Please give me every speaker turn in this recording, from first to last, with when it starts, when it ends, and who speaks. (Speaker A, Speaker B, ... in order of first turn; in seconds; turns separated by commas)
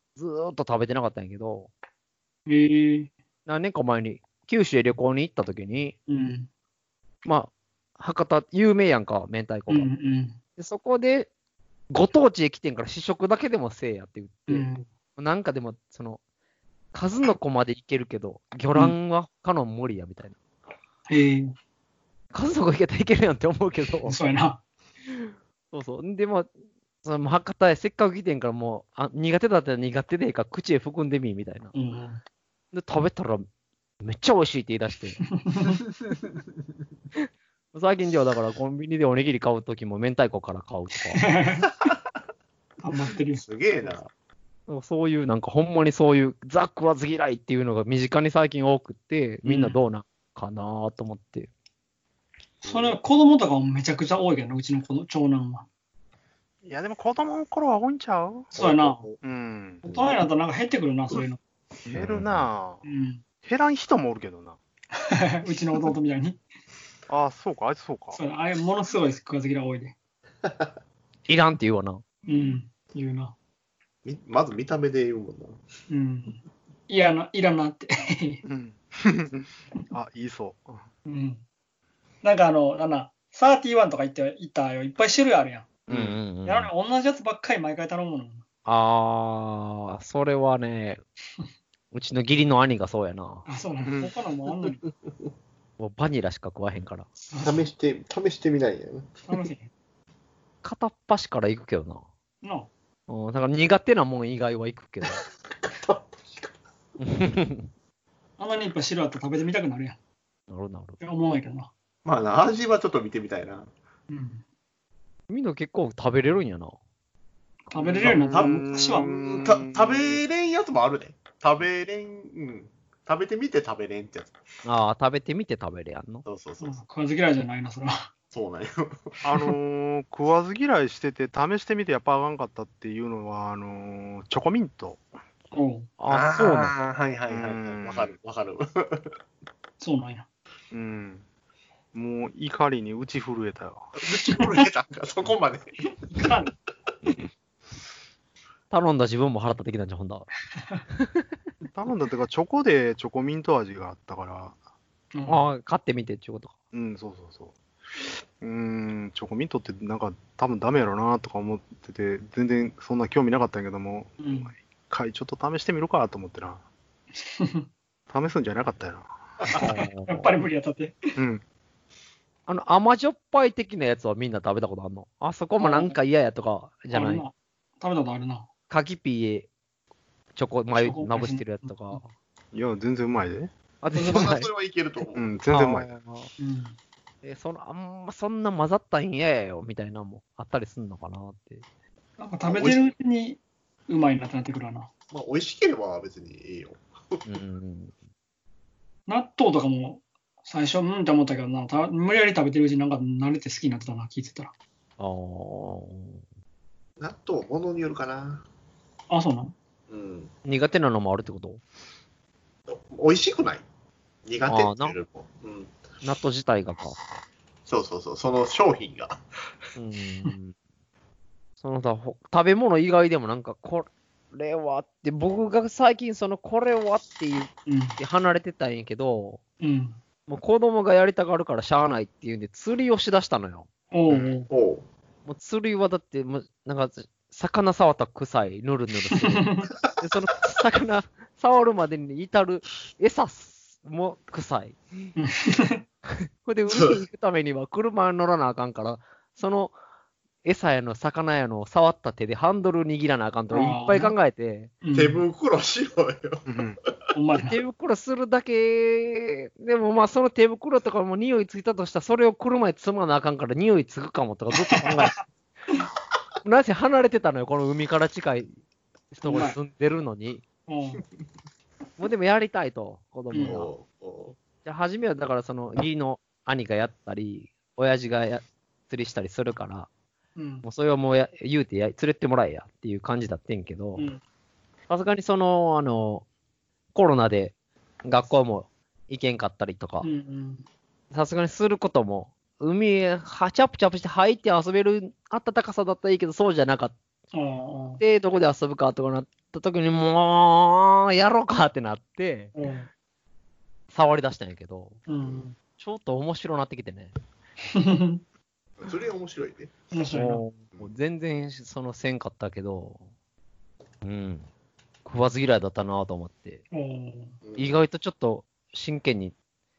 Speaker A: 0.1-1.7, Speaker B: 2.5-3.1, Speaker A: 3.5-6.0, Speaker B: 6.1-6.5, Speaker A: 7.2-9.9, Speaker B: 9.7-10.4, Speaker A: 10.6-11.3, Speaker A: 11.9-16.2, Speaker B: 14.5-14.8, Speaker A: 16.9-20.4, Speaker B: 21.1-21.5, Speaker A: 22.3-24.2, Speaker B: 24.1-24.6, Speaker A: 25.1-26.5, Speaker A: 27.0-31.7, Speaker B: 31.7-32.2, Speaker A: 32.7-33.5, Speaker A: 34.0-35.2, Speaker B: 35.4-35.8, Speaker A: 37.7-41.2, Speaker B: 41.2-41.7, Speaker B: 42.8-43.5, Speaker C: 43.4-44.0, Speaker A: 44.7-51.5, Speaker B: 49.4-49.8, Speaker B: 52.6-55.7, Speaker C: 52.6-53.0, Speaker D: 56.6-58.5, Speaker B: 58.5-59.0, Speaker C: 58.5-59.2, Speaker D: 59.2-59.8, Speaker C: 59.8-60.2, Speaker B: 59.8-61.4, Speaker D: 61.8-62.8, Speaker C: 61.9-62.5, Speaker B: 62.8-63.2, Speaker D: 63.4-64.6, Speaker B: 65.1-66.4, Speaker D: 67.1-68.2, Speaker B: 68.1-69.9, Speaker A: 71.3-72.0, Speaker B: 72.2-73.3, Speaker C: 74.0-75.6, Speaker B: 75.9-78.4, Speaker D: 78.5-80.8, Speaker B: 81.0-81.4, Speaker B: 82.2-85.7, Speaker D: 85.9-86.2, Speaker A: 85.9-86.7, Speaker B: 86.4-88.4, Speaker A: 88.7-91.0, Speaker A: 91.9-93.4, Speaker B: 93.5-94.8, Speaker D: 93.8-94.1, Speaker C: 95.0-95.3, Speaker A: 95.8-97.1, Speaker B: 97.3-97.7, Speaker C: 97.4-99.2, Speaker B: 99.3-99.7, Speaker A: 100.6-102.0, Speaker B: 102.4-102.7, Speaker A: 103.1-105.2, Speaker C: 105.1-106.5, Speaker A: 107.0-107.7, Speaker B: 108.4-110.0, Speaker A: 110.5-111.0, Speaker B: 111.0-111.7, Speaker C: 112.0-113.7, Speaker B: 114.1-114.4, Speaker A: 115.3-116.7, Speaker B: 117.7-119.3, Speaker C: 117.7-118.5, Speaker D: 118.1-120.2, Speaker C: 119.3-124.3, Speaker A: 124.6-126.2, Speaker C: 126.2-126.8, Speaker B: 126.6-128.1, Speaker C: 128.3-129.2, Speaker D: 129.2-135.0, Speaker B: 135.5-135.9, Speaker A: 136.0-136.7, Speaker C: 136.1-139.1, Speaker D: 137.3-138.1, Speaker B: 139.8-140.2, Speaker D: 140.7-141.2, Speaker D: 141.9-143.9, Speaker C: 144.0-146.3, Speaker B: 146.1-146.5, Speaker A: 148.7-150.3, Speaker A: 150.9-151.3, Speaker D: 151.7-154.6, Speaker B: 155.1-155.5, Speaker A: 155.3-156.5, Speaker D: 156.7-164.3, Speaker B: 164.2-164.5, Speaker D: 164.9-166.6, Speaker B: 167.2-167.7, Speaker D: 168.1-169.1, Speaker B: 169.5-171.2, Speaker A: 169.6-170.3, Speaker D: 171.2-171.4, Speaker A: 172.5-177.2, Speaker B: 175.6-175.9, Speaker B: 176.9-178.5, Speaker A: 178.7-179.5, Speaker A: 180.3-182.1, Speaker B: 180.8-182.0, Speaker D: 182.5-183.5, Speaker A: 183.8-184.5, Speaker B: 184.0-184.2, Speaker C: 184.0-185.3, Speaker D: 185.2-185.9, Speaker A: 185.5-186.3, Speaker B: 186.4-186.8, Speaker A: 187.2-191.6, Speaker B: 192.2-194.9, Speaker C: 192.4-192.9, Speaker C: 195.1-197.2, Speaker A: 197.2-197.9, Speaker B: 199.1-204.5, Speaker A: 205.0-206.2, Speaker C: 207.0-208.4, Speaker B: 209.1-209.5, Speaker C: 209.9-210.3, Speaker A: 210.4-211.6, Speaker C: 212.7-213.6, Speaker C: 214.2-215.8, Speaker A: 214.5-214.9, Speaker A: 216.0-217.0, Speaker C: 217.7-219.2, Speaker A: 219.8-220.5, Speaker A: 221.6-229.4, Speaker B: 227.7-228.0, Speaker B: 229.6-230.0, Speaker A: 230.3-233.7, Speaker B: 233.9-234.5, Speaker C: 234.1-234.8, Speaker A: 235.2-245.1, Speaker B: 239.2-239.7, Speaker B: 245.2-245.8, Speaker A: 246.1-249.7, Speaker A: 250.4-254.7, Speaker B: 253.5-254.1, Speaker B: 254.8-255.2, Speaker C: 254.9-256.4, Speaker D: 256.4-256.8, Speaker B: 257.1-257.6, Speaker A: 257.4-265.1, Speaker B: 264.5-265.2, Speaker A: 266.4-268.5, Speaker A: 269.1-270.4, Speaker B: 269.2-269.6, Speaker B: 270.7-271.0, Speaker A: 272.0-273.7, Speaker B: 273.3-273.6, Speaker C: 273.4-274.4, Speaker A: 274.6-279.9, Speaker B: 280.4-280.6, Speaker A: 280.6-284.1, Speaker B: 283.9-284.2, Speaker A: 284.9-286.2, Speaker A: 286.9-287.5, Speaker A: 288.0-290.1, Speaker B: 290.0-290.6, Speaker A: 291.1-296.9, Speaker B: 297.3-298.0, Speaker A: 298.0-302.5, Speaker B: 302.5-302.9, Speaker A: 303.9-305.0, Speaker B: 305.1-305.5, Speaker A: 305.8-307.1, Speaker B: 307.7-308.2, Speaker C: 308.8-309.7, Speaker B: 309.9-310.4, Speaker A: 310.1-313.0, Speaker A: 314.0-314.5, Speaker A: 315.0-316.6, Speaker B: 316.7-317.4, Speaker C: 317.4-317.7, Speaker A: 317.6-319.3